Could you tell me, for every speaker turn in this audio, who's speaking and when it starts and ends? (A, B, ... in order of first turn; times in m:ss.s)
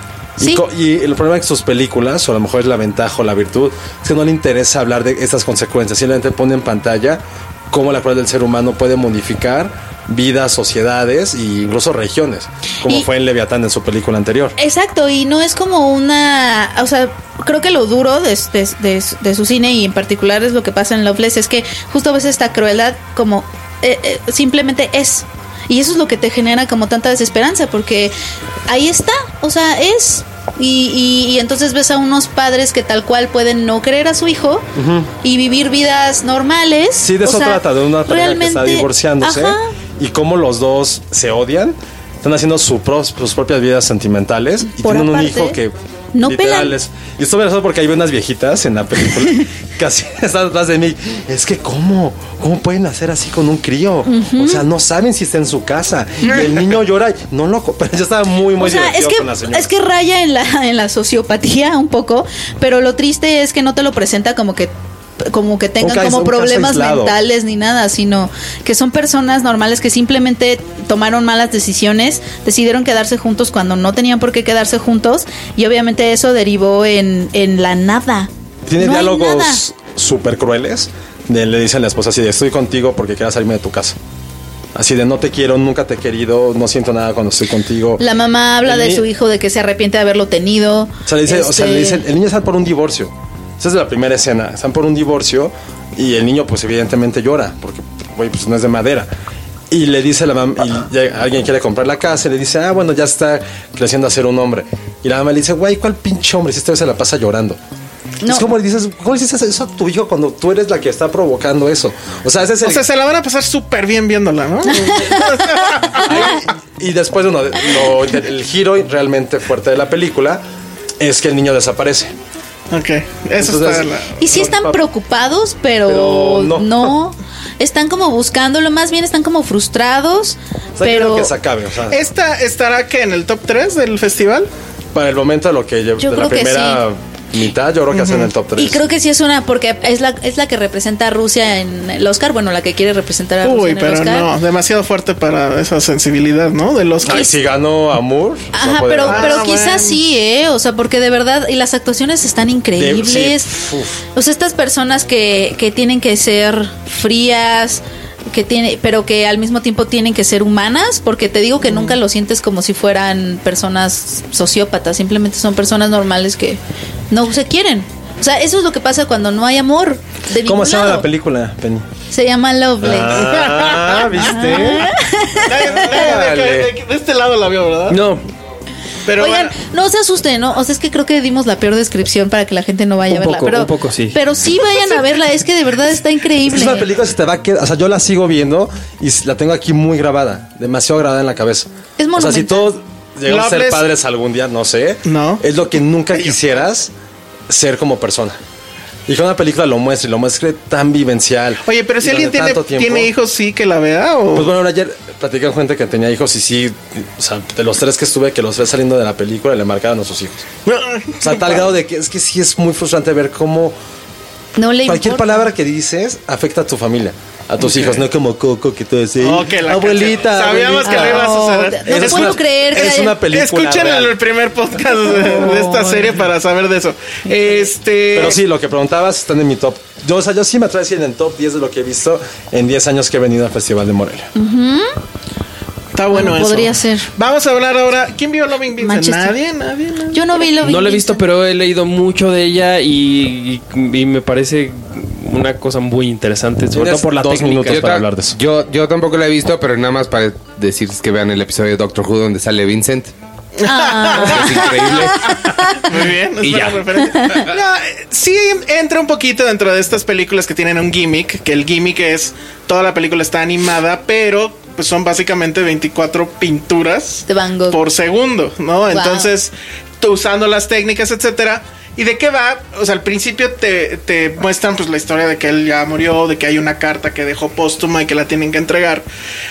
0:00.4-0:14.5 A
0:14.6-0:28.1 B
0:28.7-0:34.7 B
0:34.8-0:35.1 A
0:35.2-0:39.7 B
0:37.0-0:59.7 A
0:44.8-0:45.6 B
0:46.1-0:46.7 B
0:54.0-0:54.6 B
0:58.6-1:04.7 B
1:05.2-1:19.6 B
1:05.8-1:07.1 A
1:18.7-1:24.0 A
1:24.7-1:28.0 A
1:28.0-1:32.0 B
1:28.6-1:29.0 A
1:31.1-1:39.1 A
1:39.7-1:47.6 A
1:48.2-1:48.5 B
1:48.2-1:52.8 A
1:52.6-1:56.4 C
1:54.7-1:55.4 B
1:56.0-2:00.4 A
2:01.0-2:02.1 A
2:02.7-2:04.2 C
2:03.4-2:04.8 A
2:04.2-2:11.3 B
2:05.8-2:06.9 A
2:10.8-2:12.0 A
2:11.9-2:14.5 C
2:14.9-2:18.8 A
2:16.0-2:16.8 B
2:17.9-2:18.3 C
2:18.6-2:24.3 B
2:23.4-2:27.3 C
2:27.0-2:29.4 A
2:27.0-2:27.3 B
2:28.5-2:33.6 B
2:29.1-2:30.0 C
2:32.8-2:34.0 A
2:34.1-2:46.6 B
2:47.1-2:51.1 B
2:50.4-2:51.9 A
2:52.1-2:53.4 B
2:52.8-2:54.9 A
2:53.2-2:54.6 C
2:54.2-2:55.9 B
2:55.4-2:58.0 C
2:55.8-2:56.7 A
2:57.9-2:58.2 D
2:59.0-2:59.6 C
2:59.2-3:06.9 B
3:03.1-3:04.2 D
3:06.4-3:16.9 A
3:12.0-3:12.7 B
3:13.3-3:13.8 C
3:15.0-3:15.4 C
3:17.5-3:18.4 A
3:19.1-3:23.1 A
3:21.6-3:24.5 C
3:24.3-3:30.5 A
3:30.6-3:31.6 C
3:31.2-3:33.8 A
3:34.6-3:35.4 B
3:34.8-3:41.3 A
3:39.2-3:48.4 C
3:40.8-3:43.2 B
3:41.8-3:44.1 A
3:45.5-3:45.7 B
3:48.1-3:54.3 A
3:54.4-3:54.9 B
3:55.9-4:00.5 C
3:56.1-3:57.1 B
3:58.8-3:59.4 B
4:00.1-4:01.2 B
4:00.6-4:08.0 D
4:06.7-4:08.4 A
4:07.7-4:13.1 E
4:13.6-4:14.6 C
4:13.6-4:15.8 B
4:14.2-4:15.3 E
4:15.7-4:39.0 C
4:16.4-4:16.8 D
4:17.0-4:17.5 B
4:27.3-4:27.8 B
4:28.9-4:29.3 B